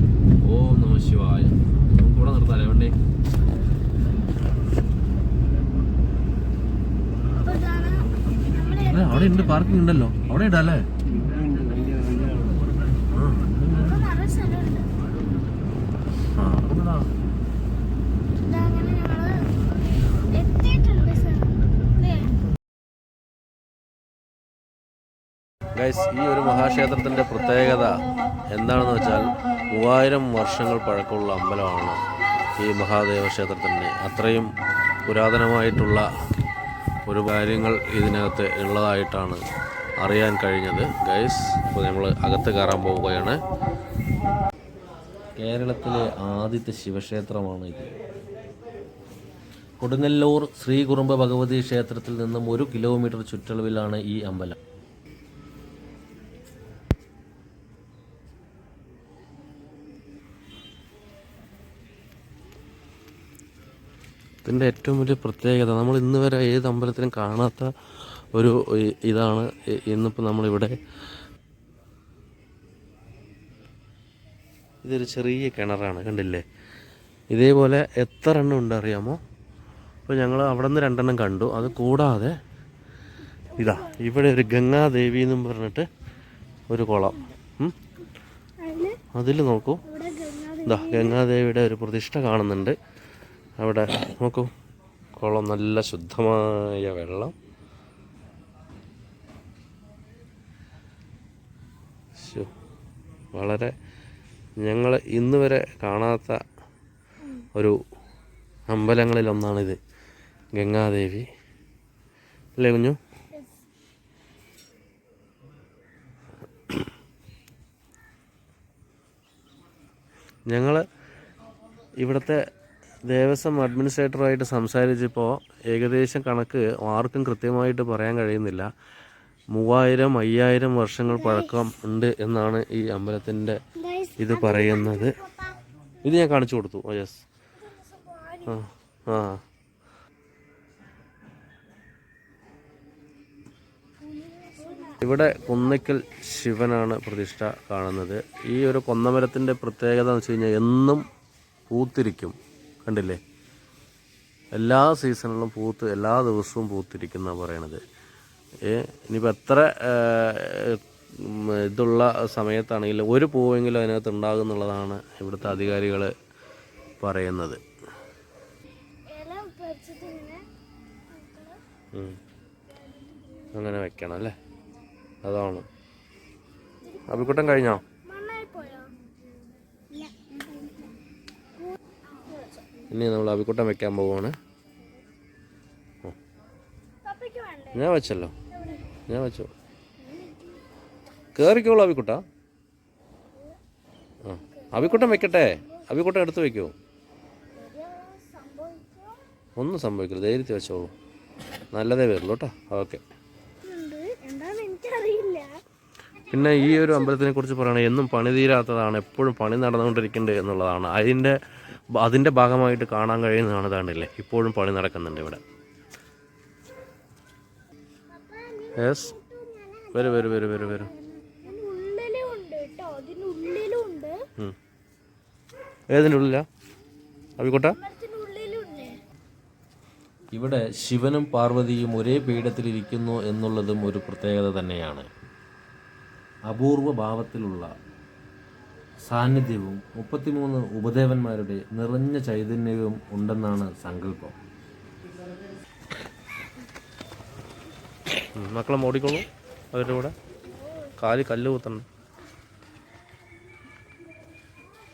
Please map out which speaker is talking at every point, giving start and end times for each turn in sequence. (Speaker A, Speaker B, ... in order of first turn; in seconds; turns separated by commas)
Speaker A: 0.4-2.9, Speaker B: 7.4-9.7, Speaker A: 8.7-10.9, Speaker B: 11.7-12.2, Speaker A: 13.0-13.8, Speaker B: 13.7-14.9, Speaker A: 16.4-17.1, Speaker B: 18.4-22.3, Speaker A: 25.7-32.0, Speaker A: 32.6-34.5, Speaker A: 35.0-36.0, Speaker A: 37.0-39.4, Speaker A: 40.0-43.4, Speaker A: 45.4-47.9, Speaker A: 49.8-54.6, Speaker A: 64.4-67.7, Speaker A: 68.3-70.8, Speaker A: 74.8-76.4, Speaker A: 77.3-79.2, Speaker A: 80.1-82.3, Speaker A: 83.6-85.8, Speaker A: 86.7-87.7, Speaker B: 88.6-89.0, Speaker A: 89.2-89.8, Speaker B: 89.8-91.2, Speaker A: 90.7-92.8, Speaker A: 93.6-94.5, Speaker A: 95.2-97.3, Speaker A: 102.2-102.5, Speaker A: 103.3-103.7, Speaker A: 104.6-106.4, Speaker A: 108.7-109.8, Speaker A: 110.5-111.2, Speaker A: 112.6-113.0, Speaker A: 120.5-120.8, Speaker A: 122.0-122.4, Speaker A: 123.0-128.7, Speaker A: 129.5-133.6, Speaker B: 131.1-131.5, Speaker B: 133.8-135.5, Speaker A: 134.2-135.1, Speaker A: 136.0-137.2, Speaker B: 137.6-138.6, Speaker A: 138.5-139.4, Speaker B: 144.0-145.0, Speaker A: 145.0-151.0, Speaker A: 151.7-153.2, Speaker A: 154.5-157.8, Speaker A: 158.7-166.1, Speaker A: 167.0-167.6, Speaker B: 169.1-170.4, Speaker B: 171.1-171.6, Speaker A: 173.5-174.3, Speaker A: 175.2-175.6, Speaker B: 176.8-178.9, Speaker A: 177.1-177.8, Speaker B: 179.9-180.9, Speaker B: 181.6-182.7, Speaker A: 182.9-184.3, Speaker B: 187.0-188.0, Speaker A: 187.7-188.3, Speaker B: 188.5-188.9, Speaker A: 189.1-189.5, Speaker B: 190.0-190.6, Speaker A: 191.3-192.2, Speaker A: 194.3-196.7, Speaker B: 194.4-195.9, Speaker B: 197.5-199.2, Speaker A: 199.6-200.9, Speaker A: 201.7-203.0, Speaker B: 203.6-205.5, Speaker B: 206.3-207.1, Speaker A: 206.3-211.3, Speaker A: 212.0-215.4, Speaker B: 218.1-224.2, Speaker A: 218.8-219.1, Speaker A: 219.9-220.9, Speaker A: 225.9-226.4, Speaker A: 227.4-227.7, Speaker B: 227.8-229.0, Speaker A: 230.3-235.1, Speaker A: 236.5-237.7, Speaker A: 239.1-244.3, Speaker A: 248.4-250.1, Speaker A: 251.0-251.8